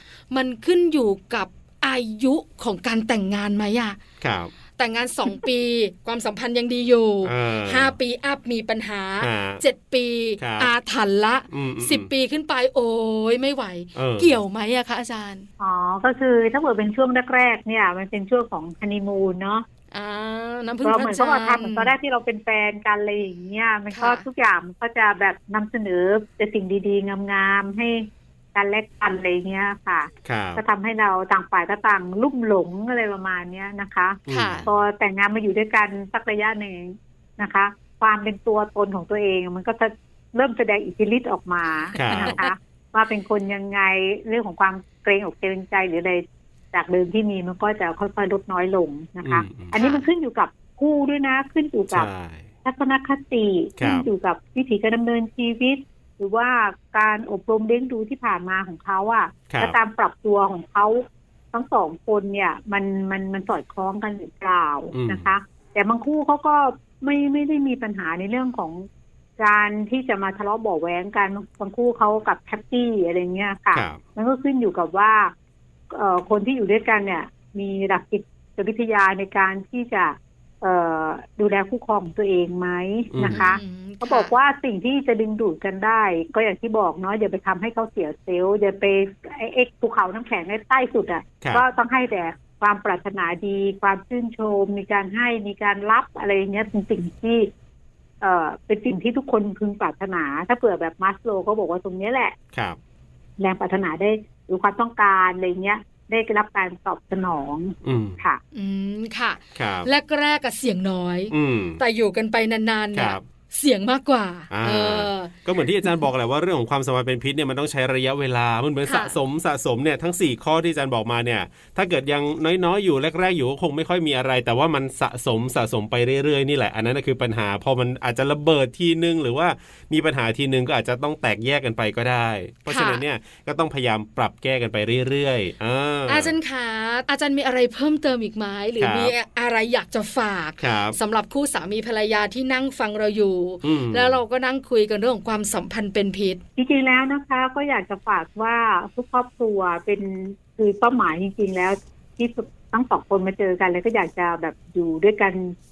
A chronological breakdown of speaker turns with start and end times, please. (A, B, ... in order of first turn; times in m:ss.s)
0:00.3-0:04.0 A
0:04.2-0:04.5 B
0:04.8-0:15.5 A
0:07.2-0:07.9 B
0:09.2-0:09.6 B
0:10.4-0:10.7 B
0:11.5-0:12.1 B
0:13.9-0:14.3 B
0:15.6-0:19.6 C
0:19.9-0:21.9 A
0:20.8-0:52.1 C
0:23.9-0:24.2 A
0:30.2-0:30.6 B
0:34.3-0:34.7 B
0:34.3-0:34.7 A
0:41.9-0:42.5 A
0:42.0-0:42.4 B
0:49.2-0:49.7 B
0:49.7-0:50.1 A
0:51.9-0:52.5 B
0:52.6-1:08.9 C
0:53.8-0:54.1 B
0:59.5-0:59.8 B
1:04.9-1:05.3 B
1:09.4-1:15.3 C
1:13.7-1:14.0 B
1:15.9-1:37.5 C
1:23.1-1:23.4 B
1:23.2-1:24.3 A
1:38.2-1:42.4 C
1:42.5-1:42.8 B
1:43.4-1:48.4 C
1:47.8-1:48.2 B
1:48.5-1:55.3 A
1:49.5-1:49.9 B
1:51.3-1:51.8 B
1:52.9-1:53.2 B
1:54.5-2:16.3 B
1:58.8-1:59.1 A
2:12.7-2:13.0 A
2:16.1-2:26.4 A
2:18.8-2:19.1 B
2:20.6-2:21.0 B
2:23.6-2:24.2 B
2:26.6-2:35.5 C